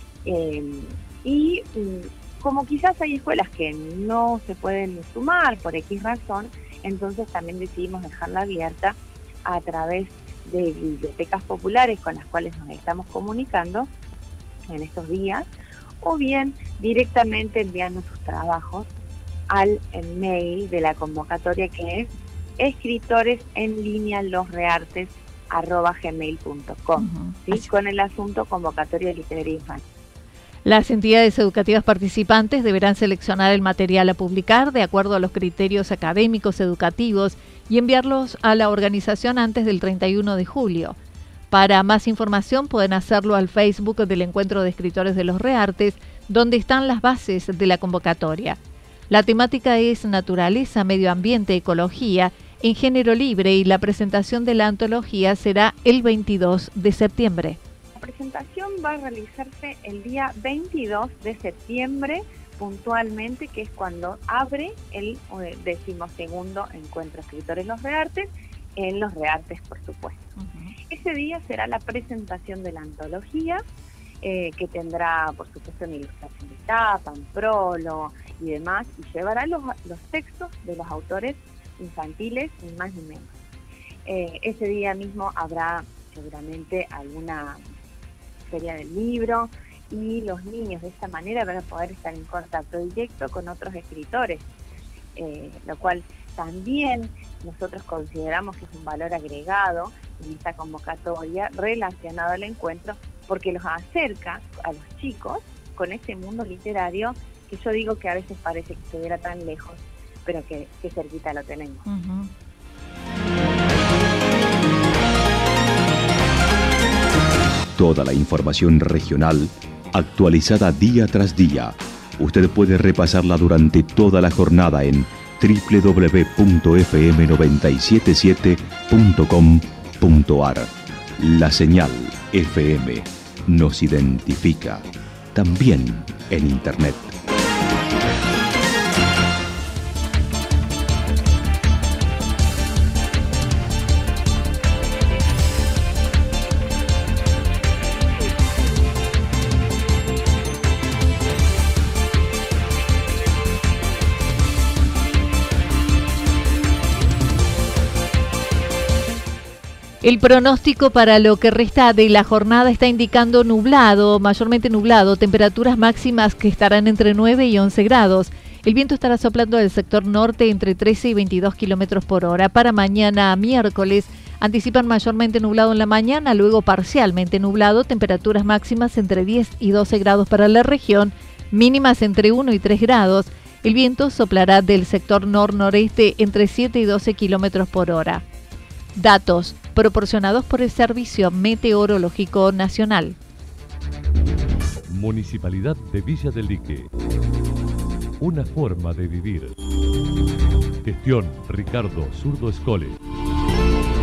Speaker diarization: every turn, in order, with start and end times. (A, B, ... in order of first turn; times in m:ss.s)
0:00.2-0:13.9 A
0:14.7-0:15.5 A
0:16.0-0:18.9 A
0:19.5-0:29.8 A
0:27.0-0:27.7 B
0:30.6-0:41.0 B
0:41.5-0:57.6 B
0:58.0-1:10.3 A
1:10.4-1:10.7 B
1:10.9-1:13.6 A
1:14.2-1:23.3 A
1:24.0-1:27.6 A
1:28.5-1:34.4 A
1:35.2-1:51.8 A
1:51.9-1:52.3 B
1:57.8-2:17.1 C
2:40.0-3:08.2 B
3:08.9-3:13.2 B
3:14.9-3:16.9 D
3:18.2-3:19.6 D
3:20.8-3:23.0 D